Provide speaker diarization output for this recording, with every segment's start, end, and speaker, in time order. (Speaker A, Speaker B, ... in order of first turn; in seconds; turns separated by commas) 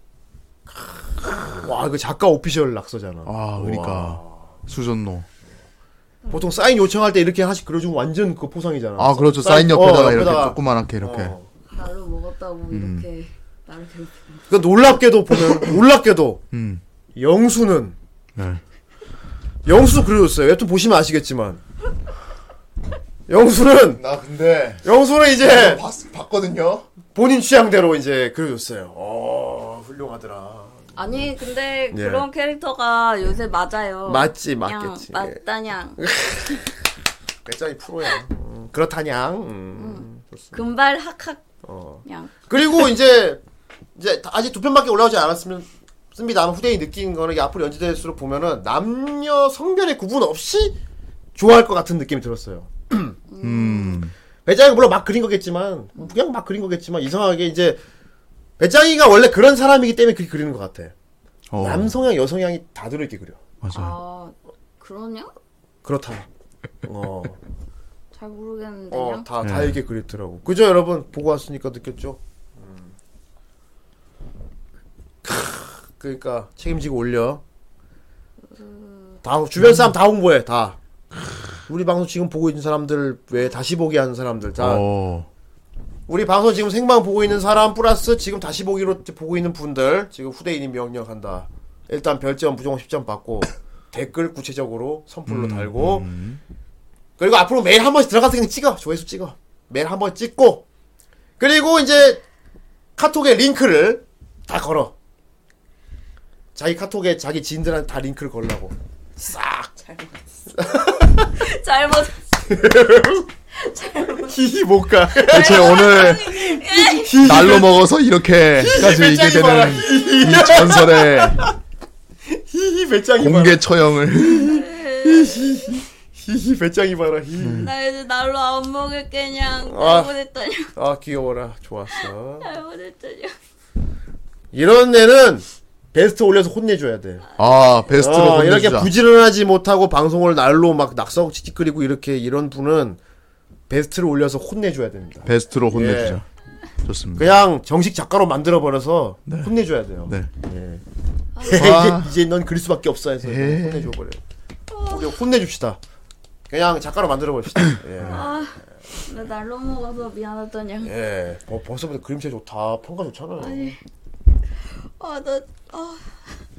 Speaker A: 0.8-4.4, Speaker B: 3.3-5.3, Speaker C: 6.2-6.5, Speaker A: 6.3-11.5, Speaker B: 9.0-11.3, Speaker C: 11.7-14.5, Speaker B: 12.7-13.1, Speaker A: 14.5-16.4, Speaker B: 16.5-16.8, Speaker A: 17.2-18.0, Speaker B: 18.4-18.6, Speaker A: 19.6-21.6, Speaker A: 23.3-24.0, Speaker B: 24.0-24.9, Speaker A: 24.8-25.8, Speaker B: 25.4-26.9, Speaker A: 27.1-31.0, Speaker C: 31.0-36.0, Speaker A: 31.9-32.3, Speaker A: 34.1-35.4, Speaker A: 36.0-36.6, Speaker A: 37.5-40.6, Speaker C: 39.8-41.4, Speaker A: 41.6-43.4, Speaker C: 42.0-42.5, Speaker A: 44.0-50.8, Speaker A: 51.4-53.2, Speaker C: 53.3-54.1, Speaker B: 53.4-54.1, Speaker A: 54.5-57.8, Speaker A: 58.6-60.9, Speaker B: 61.5-61.9, Speaker A: 61.6-63.4, Speaker B: 63.6-64.0, Speaker C: 63.7-65.3, Speaker A: 65.8-66.3, Speaker A: 66.8-67.4, Speaker C: 68.1-69.2, Speaker A: 68.9-72.9, Speaker B: 69.4-69.8, Speaker A: 75.2-77.4, Speaker C: 78.5-79.2, Speaker A: 79.2-80.8, Speaker A: 81.7-84.9, Speaker B: 84.6-85.3, Speaker A: 86.1-96.1, Speaker B: 95.3-96.4, Speaker A: 97.2-100.7, Speaker A: 101.4-102.2, Speaker A: 103.0-104.9, Speaker A: 106.5-109.7, Speaker C: 109.8-110.1, Speaker A: 110.5-111.3, Speaker C: 111.3-112.2, Speaker A: 112.5-113.3, Speaker C: 113.5-114.3, Speaker A: 114.3-117.8, Speaker C: 115.1-117.3, Speaker B: 115.3-116.5, Speaker B: 117.1-121.5, Speaker A: 118.6-121.5, Speaker A: 122.3-127.7, Speaker B: 123.2-124.6, Speaker C: 124.3-125.7, Speaker B: 127.4-127.7, Speaker C: 127.6-130.7, Speaker A: 129.7-130.1, Speaker A: 130.8-132.5, Speaker C: 132.0-133.3, Speaker A: 134.5-137.3, Speaker B: 137.4-138.9, Speaker C: 137.4-137.7, Speaker A: 137.9-143.0, Speaker A: 143.7-146.2, Speaker B: 145.2-146.2, Speaker B: 146.8-147.3, Speaker A: 147.2-150.8, Speaker B: 149.3-149.5, Speaker C: 151.4-151.7, Speaker A: 151.4-154.2, Speaker B: 151.5-152.1, Speaker B: 153.2-153.9, Speaker C: 154.7-155.1, Speaker A: 154.9-155.8, Speaker A: 156.5-158.4, Speaker B: 158.0-158.2, Speaker C: 158.1-160.9, Speaker A: 160.8-163.8, Speaker C: 163.4-163.8, Speaker C: 164.7-166.2